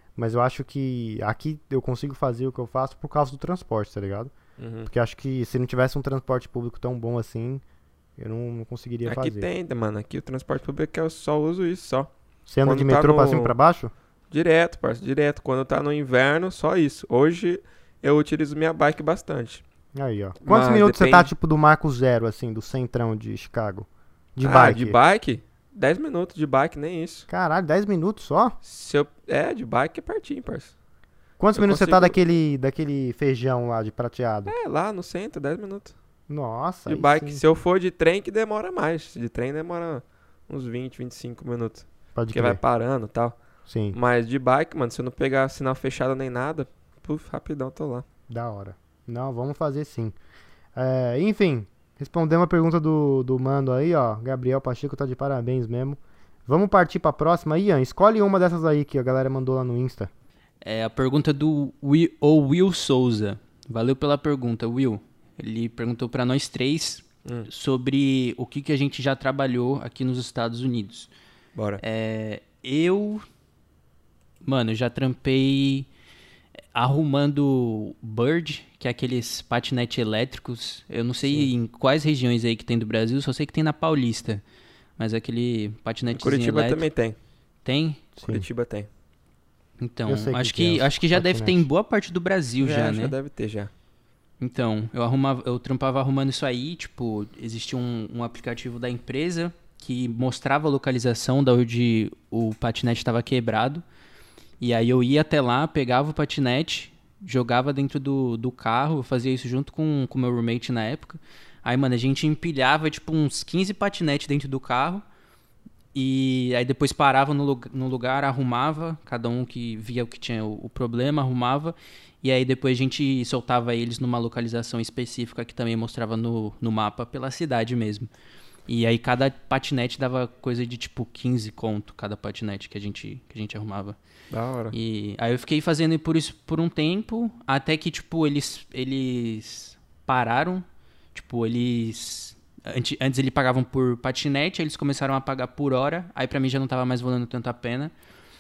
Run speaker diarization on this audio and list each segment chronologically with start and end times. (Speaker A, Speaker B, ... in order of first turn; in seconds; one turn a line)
Speaker A: 0.1-4.3
Speaker B: 4.6-4.9
Speaker A: 4.8-7.6
Speaker A: 8.2-9.5
Speaker B: 9.1-12.1
Speaker A: 12.5-13.9
Speaker B: 12.6-13.5
Speaker B: 14.3-19.6
Speaker A: 19.9-25.0
Speaker B: 20.4-21.3
Speaker B: 24.4-27.3
Speaker A: 27.3-28.5
Speaker B: 28.6-30.7
Speaker A: 31.4-34.5
Speaker B: 31.5-32.2
Speaker B: 34.5-36.0
Speaker A: 36.3-37.4
Speaker B: 36.9-43.4
Speaker A: 42.1-42.6
Speaker A: 43.7-44.0
Speaker B: 43.9-48.0
Speaker A: 48.3-50.1
Speaker A: 50.7-60.1
Speaker C: 60.6-71.1
Speaker B: 71.5-71.8
Speaker C: 71.8-73.2
Speaker C: 74.4-75.9
Speaker C: 76.7-84.4
Speaker C: 85.0-86.8
Speaker B: 86.1-87.2
Speaker C: 87.6-88.1
Speaker A: 88.2-88.5
Speaker B: 88.2-88.9
Speaker C: 89.8-93.1
Speaker A: 90.1-91.7
Speaker B: 92.6-93.7
Speaker C: 94.4-103.8
Speaker C: 104.6-115.0
Speaker C: 115.9-128.1
Speaker C: 128.7-134.0
Speaker B: 134.3-134.7
Speaker C: 134.7-147.9